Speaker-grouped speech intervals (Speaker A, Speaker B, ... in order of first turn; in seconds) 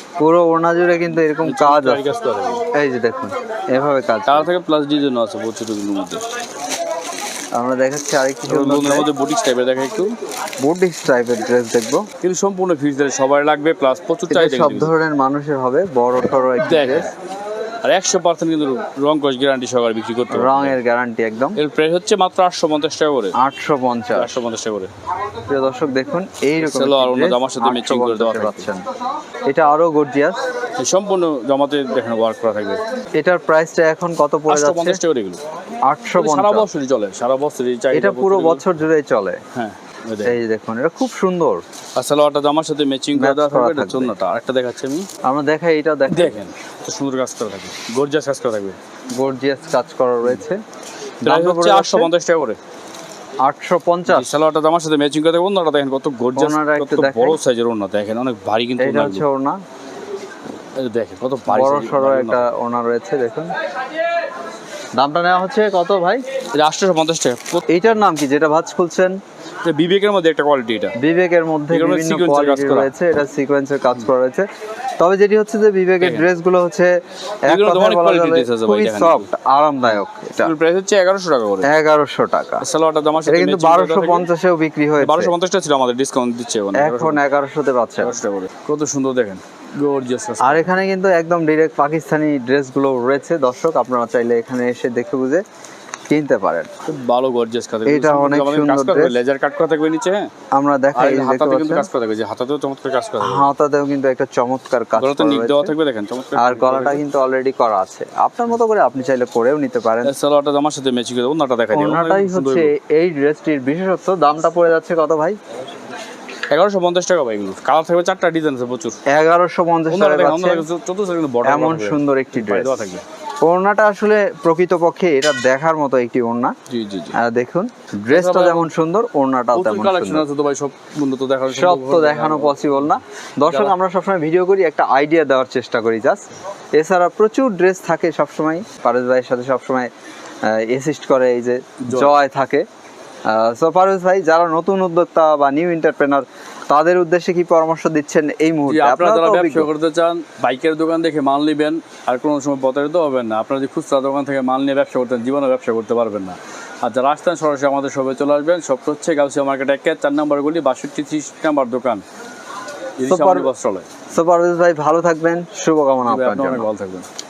Speaker A: 0.2-2.0, 2.7-4.5, 7.5-9.1, 10.6-12.0, 14.3-17.1, 20.3-21.6, 23.4-24.3, 25.5-28.9, 29.5-30.4, 33.2-35.0, 35.9-36.7, 37.9-39.4, 40.2-41.6, 43.1-44.1, 45.2-46.4, 49.1-50.6, 51.2-52.1, 53.4-54.3, 56.4-57.4, 58.8-59.6, 61.5-63.5, 65.0-66.2, 67.7-69.2, 71.0-74.5, 75.0-76.9, 77.5-80.5, 81.6-82.6, 83.3-85.3, 86.7-88.2, 90.4-95.4, 96.1-96.7, 97.8-99.1, 100.5-101.9, 103.2-105.7, 106.3-110.1, 111.7-115.4, 119.1-120.7, 121.4-122.8, 123.4-126.5, 127.2-130.2, 131.5-136.2, 136.8-139.9, 140.4-142.6, 143.3-149.7, 163.1-163.5, 164.1-166.7
Speaker B: 1.4-2.6, 4.3-6.2, 8.5-10.1, 12.2-14.9, 16.6-17.1, 17.8-20.8, 21.6-23.4, 24.1-24.9, 26.6-28.7, 30.8-32.8, 34.5-35.4, 36.2-38.6, 39.5-40.4, 42.0-45.1, 46.1-48.8, 51.2-52.6, 54.1-59.2, 60.8-62.6, 66.6-67.9, 69.6-70.9, 71.7-72.9, 76.0-76.3, 77.5-79.3, 80.4-81.7, 82.6-84.3, 85.0-87.2, 88.0-90.8, 96.9-100.3, 100.9-103.5, 105.0-107.0, 110.0-112.7, 116.5-119.0, 119.9-123.0, 126.7-127.1, 128.1-128.7, 129.5-133.7, 141.8-142.1, 148.7-162.0, 163.0-163.9, 166.0-167.1